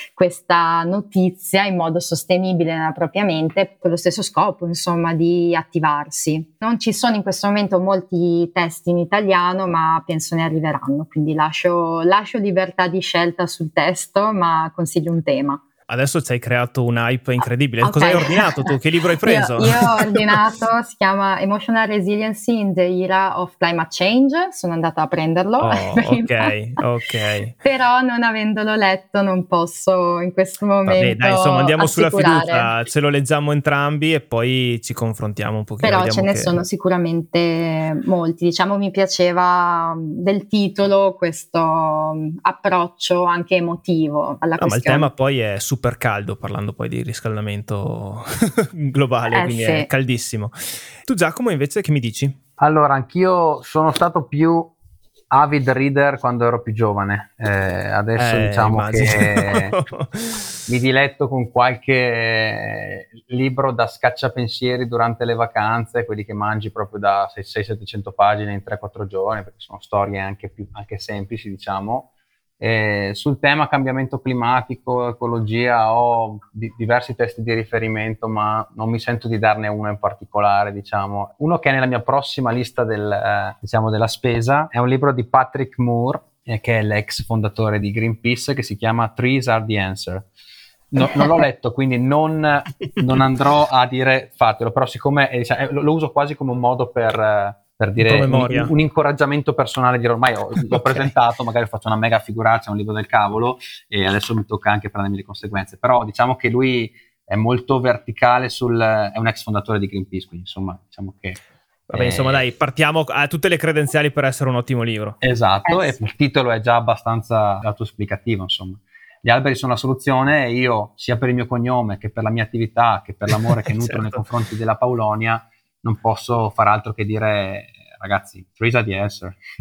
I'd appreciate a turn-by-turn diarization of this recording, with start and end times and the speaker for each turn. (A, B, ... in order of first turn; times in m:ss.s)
0:00.2-0:15.6 A
0:15.9-0:20.3 B
0:17.8-0:18.7 A
0:19.2-0:26.5 A
0:25.6-0:27.5 B
0:27.6-0:32.7 A
0:30.8-0:36.6 B
0:35.8-0:45.1 A
0:44.6-0:52.3 B
0:49.3-0:49.9 A
0:52.6-0:54.7 C
0:55.3-0:59.7 C
0:58.2-1:00.5 B
1:00.7-1:12.0 C
1:12.6-1:30.3 C
1:30.9-1:51.4 C
1:38.0-1:38.7 B
1:40.7-1:41.1 B
1:51.9-1:55.2 B
1:51.9-1:52.4 C
1:55.2-2:09.4 C
1:55.6-1:56.0 A
2:03.7-2:04.2 B